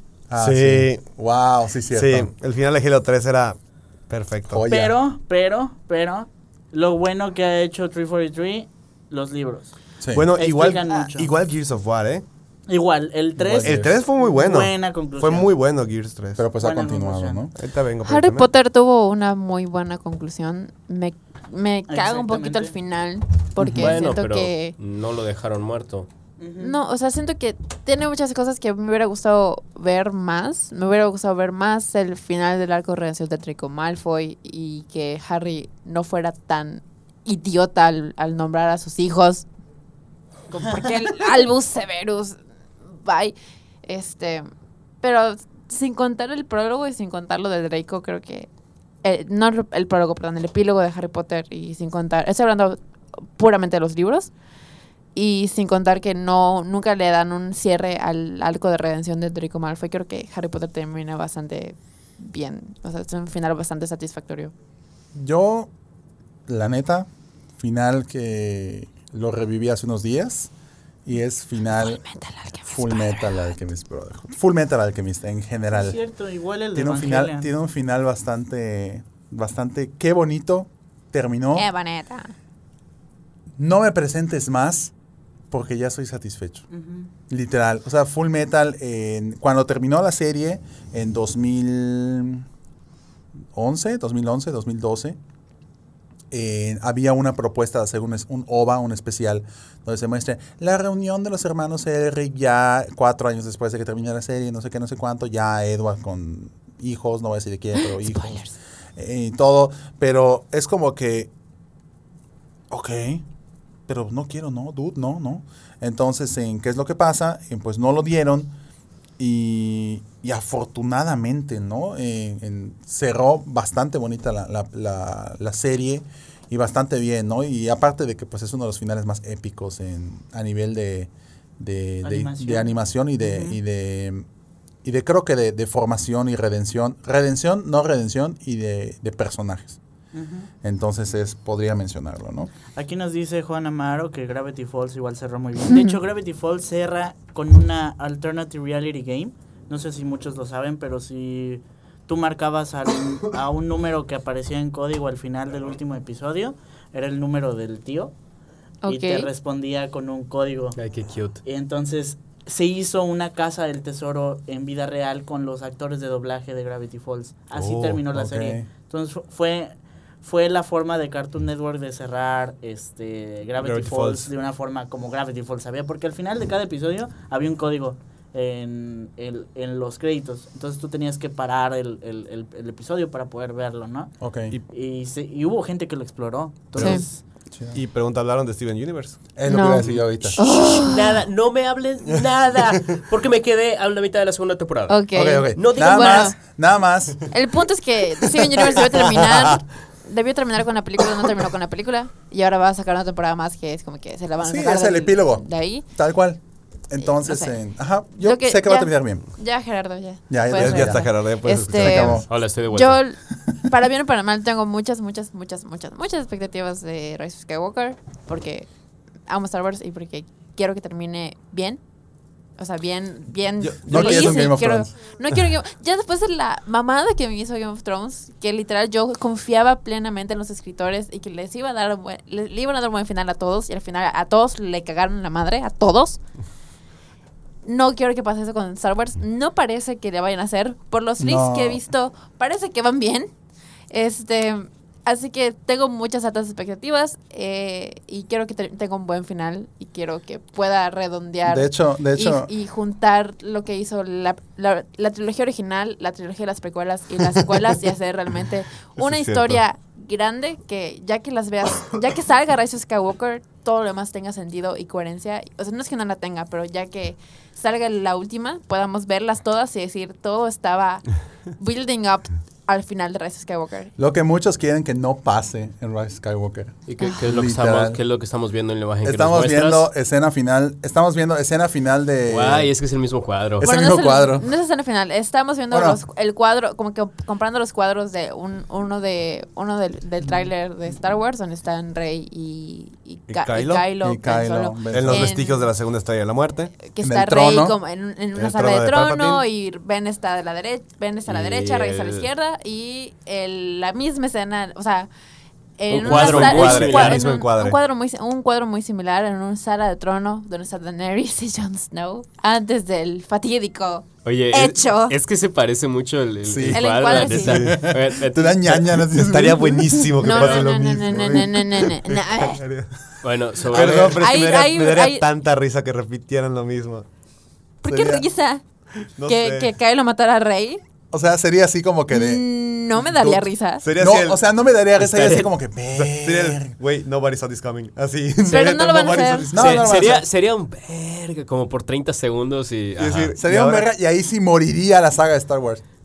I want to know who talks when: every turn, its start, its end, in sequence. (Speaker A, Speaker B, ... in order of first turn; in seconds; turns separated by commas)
Speaker A: 0.3-2.3, Speaker B: 0.4-1.1, Speaker B: 1.9-4.7, Speaker A: 4.5-5.0, Speaker C: 4.7-9.7, Speaker A: 10.0-10.3, Speaker B: 10.1-12.2, Speaker C: 10.3-11.3, Speaker C: 12.7-15.5, Speaker A: 13.4-14.0, Speaker B: 13.6-16.4, Speaker A: 16.4-17.5, Speaker C: 16.6-17.5, Speaker B: 17.6-18.5, Speaker D: 18.1-24.8, Speaker C: 21.9-22.8, Speaker B: 23.6-23.9, Speaker E: 23.7-26.1, Speaker C: 26.4-26.8, Speaker D: 26.6-39.5, Speaker D: 40.5-44.5, Speaker C: 40.6-41.0, Speaker D: 45.0-48.5, Speaker D: 49.0-54.3, Speaker D: 55.1-64.5, Speaker A: 65.1-65.7, Speaker A: 66.5-67.1, Speaker A: 67.6-70.5, Speaker A: 71.0-72.0, Speaker D: 71.7-73.5, Speaker A: 72.7-76.0, Speaker C: 75.7-77.5, Speaker A: 76.7-81.7, Speaker D: 81.6-82.3, Speaker A: 83.6-84.9, Speaker A: 85.5-86.7, Speaker C: 86.7-87.1, Speaker A: 87.3-92.5, Speaker A: 93.5-95.2, Speaker A: 96.3-108.4, Speaker D: 107.8-108.5, Speaker A: 109.0-111.3, Speaker A: 112.7-113.2, Speaker A: 113.9-118.5, Speaker A: 119.2-134.2, Speaker C: 132.0-133.6, Speaker A: 134.8-139.8, Speaker C: 140.1-140.5, Speaker A: 140.6-142.6, Speaker C: 142.7-158.1, Speaker D: 158.8-159.3, Speaker C: 158.9-160.8, Speaker E: 160.8-161.4, Speaker C: 161.4-187.2, Speaker B: 167.5-168.0, Speaker A: 168.1-168.7, Speaker B: 173.6-174.3, Speaker A: 184.2-184.6, Speaker B: 186.8-187.0, Speaker D: 186.8-187.1, Speaker A: 187.5-187.8, Speaker B: 187.7-189.7, Speaker A: 189.4-190.4, Speaker D: 189.5-191.2, Speaker E: 190.4-195.0, Speaker D: 194.9-196.3, Speaker A: 195.1-197.4, Speaker E: 195.6-196.3, Speaker D: 197.3-205.9, Speaker B: 198.8-199.6, Speaker A: 204.4-209.3, Speaker D: 207.0-207.6, Speaker D: 208.2-218.7, Speaker A: 210.3-212.3, Speaker B: 210.5-212.2, Speaker E: 212.3-213.0, Speaker D: 219.3-221.8, Speaker D: 222.6-236.2, Speaker B: 223.6-224.4, Speaker A: 223.9-224.9, Speaker D: 237.7-243.3, Speaker A: 241.2-241.8, Speaker D: 243.9-273.9, Speaker A: 251.5-252.5, Speaker B: 259.0-259.6, Speaker A: 274.0-278.0, Speaker E: 276.9-279.9, Speaker A: 279.0-282.7, Speaker E: 282.3-283.7, Speaker A: 283.6-284.5, Speaker D: 283.6-295.7, Speaker A: 285.7-286.0, Speaker B: 293.3-293.9, Speaker A: 294.0-295.3, Speaker B: 294.9-296.7, Speaker D: 296.8-305.1, Speaker A: 297.0-297.8, Speaker B: 298.4-299.4, Speaker E: 301.3-302.3, Speaker D: 305.8-315.2, Speaker E: 305.9-307.4, Speaker B: 306.0-307.8, Speaker E: 314.2-318.8, Speaker A: 316.5-320.1, Speaker D: 316.7-317.7, Speaker B: 318.6-327.1, Speaker D: 320.2-322.6, Speaker E: 320.3-320.7, Speaker E: 323.2-324.2, Speaker D: 323.9-325.2, Speaker D: 327.8-328.6, Speaker A: 327.9-328.2, Speaker B: 329.2-329.7, Speaker D: 329.3-330.8, Speaker A: 331.1-332.4, Speaker D: 332.1-333.8, Speaker B: 333.8-334.4, Speaker A: 334.0-336.7, Speaker E: 335.0-335.5, Speaker B: 335.9-340.1, Speaker D: 338.4-339.5, Speaker A: 339.5-340.2, Speaker E: 339.5-343.4, Speaker B: 343.0-343.9, Speaker A: 343.4-345.8